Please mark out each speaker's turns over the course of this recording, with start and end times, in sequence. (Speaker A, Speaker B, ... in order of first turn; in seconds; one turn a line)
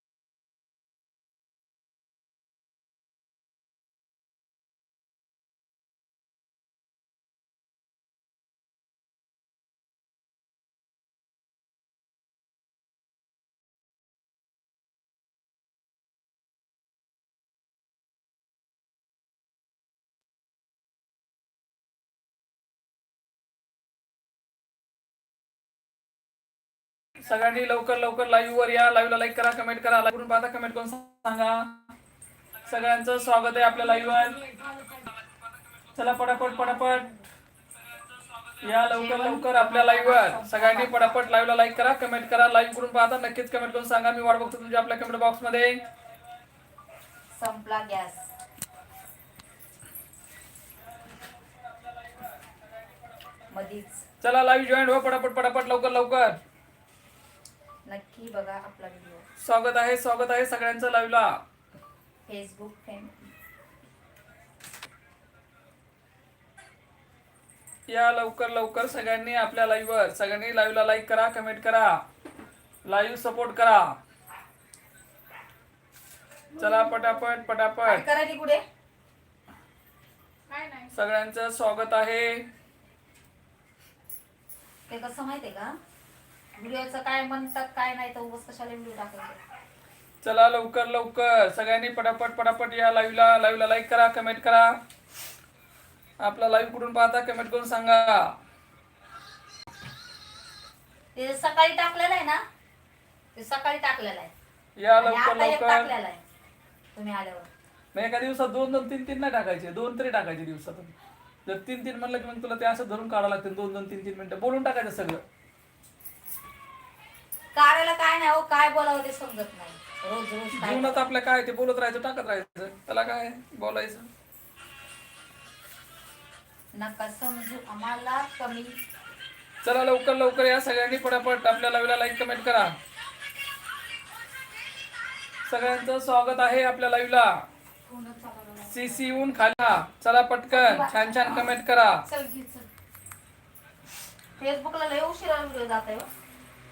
Speaker A: 27.2-31.7
Speaker A: 32.6-34.5
Speaker A: 36.0-37.1
Speaker B: 36.6-37.2
Speaker A: 38.6-45.7
Speaker B: 38.8-41.2
Speaker B: 47.3-48.2
Speaker B: 53.5-54.0
Speaker A: 54.2-56.4
Speaker B: 57.9-59.2
Speaker A: 59.4-61.4
Speaker B: 62.3-63.1
Speaker A: 67.9-71.9
Speaker A: 72.8-73.8
Speaker A: 76.6-78.0
Speaker B: 77.8-78.6
Speaker B: 80.5-80.9
Speaker A: 80.9-82.4
Speaker B: 84.9-85.7
Speaker B: 86.5-89.4
Speaker A: 90.2-94.7
Speaker A: 96.2-98.2
Speaker B: 101.2-102.4
Speaker B: 103.3-104.3
Speaker A: 104.8-105.9
Speaker B: 105.0-106.2
Speaker B: 106.9-107.5
Speaker A: 107.9-110.9
Speaker A: 111.5-115.2
Speaker B: 117.5-121.1
Speaker A: 120.5-124.1
Speaker B: 126.7-128.8
Speaker A: 129.6-132.7
Speaker A: 135.4-137.4
Speaker B: 137.9-139.1
Speaker A: 138.7-142.0
Speaker B: 140.5-141.5
Speaker B: 142.0-142.7
Speaker B: 144.4-146.1